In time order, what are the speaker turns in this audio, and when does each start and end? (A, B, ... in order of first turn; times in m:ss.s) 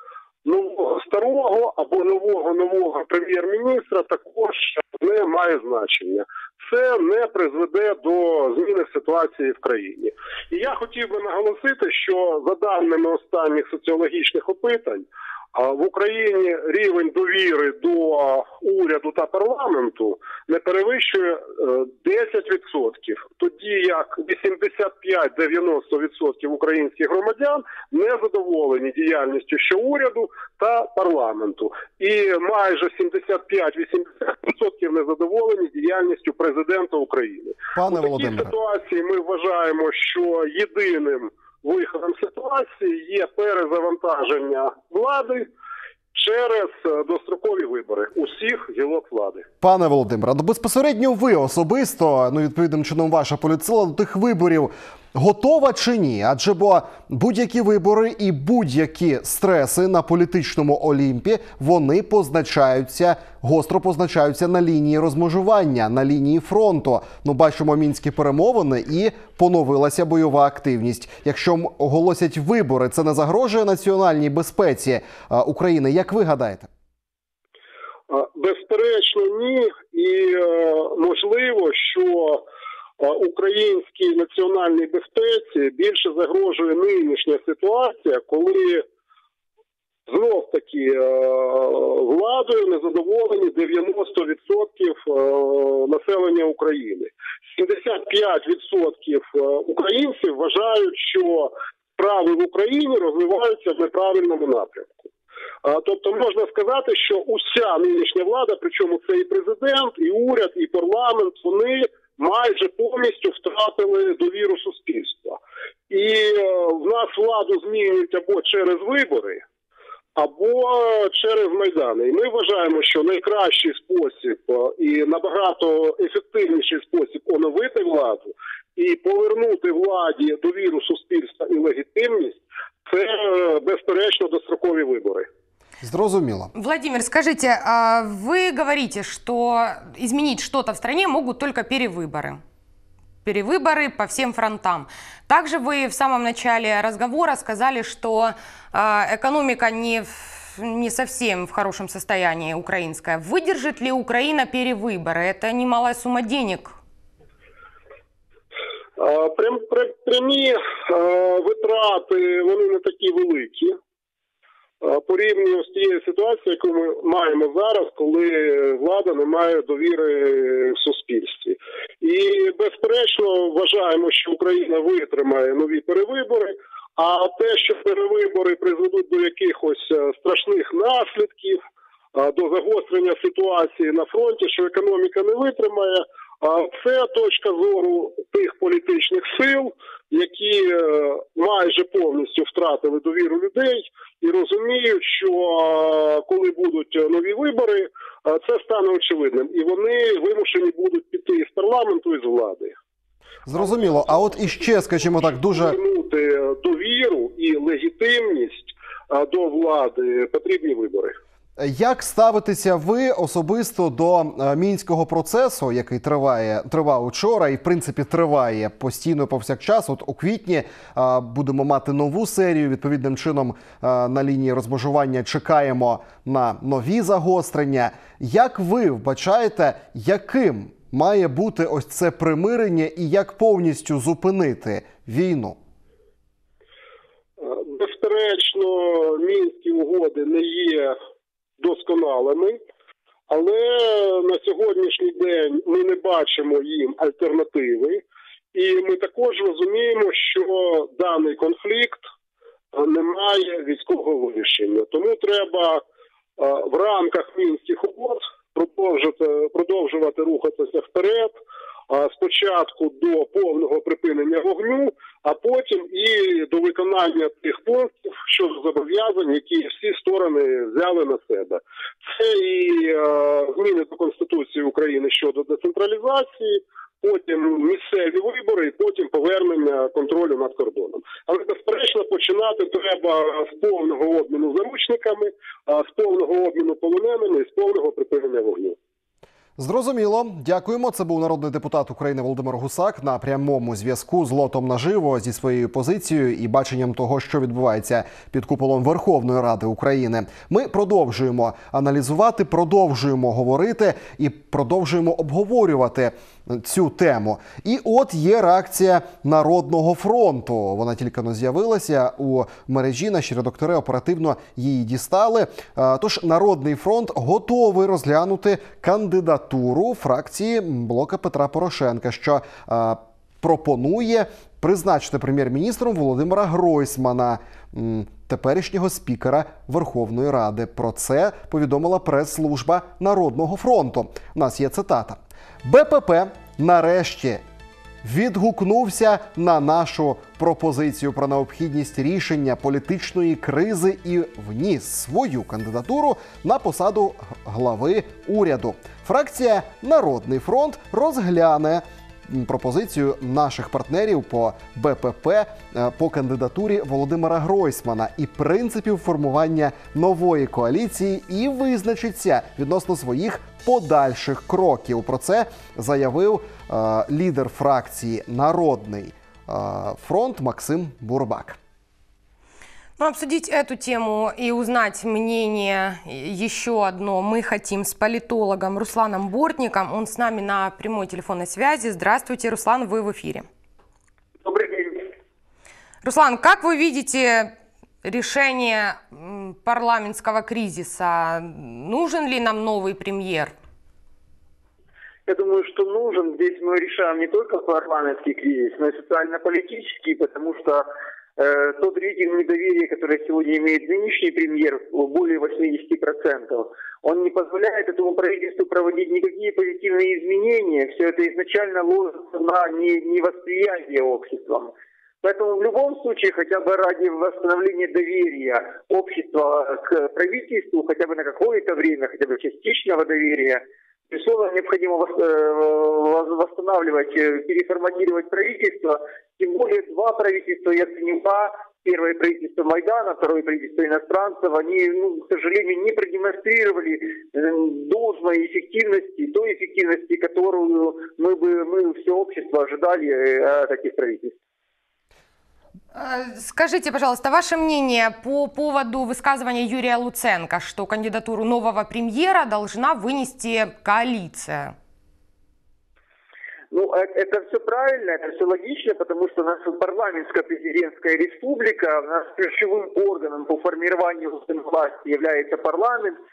0:00.4-0:45.5 A
0:37.8-0:38.6 B
0:46.1-0:49.5 A
0:49.6-1:16.7 B
1:18.1-1:22.4 A
1:23.0-1:28.8 A
1:30.1-1:45.1 A
1:45.6-1:55.4 A
1:55.9-1:59.4 A
2:00.2-2:15.3 A
2:15.8-2:16.5 B
2:16.5-2:22.4 C
2:23.2-2:36.8 C
2:39.0-2:43.8 A
2:44.8-3:01.6 A
3:02.1-3:22.8 A
3:23.5-3:25.8 B
3:23.6-3:31.2 A
3:31.6-3:55.6 B
3:57.4-4:01.0 A
4:01.6-4:02.6 A
4:03.3-4:08.0 A
4:08.5-4:12.0 A
4:12.7-4:15.8 A
4:16.4-4:21.4 A
4:21.9-4:48.8 A
4:49.6-5:37.4 B
5:38.0-6:11.6 B
6:13.0-6:23.5 C
6:24.4-6:25.1 D
6:26.0-6:27.5 C
6:28.0-6:33.5 C
6:35.3-6:54.7 D
6:55.2-7:24.4 D
7:25.9-7:34.8 C
7:36.7-7:46.2 D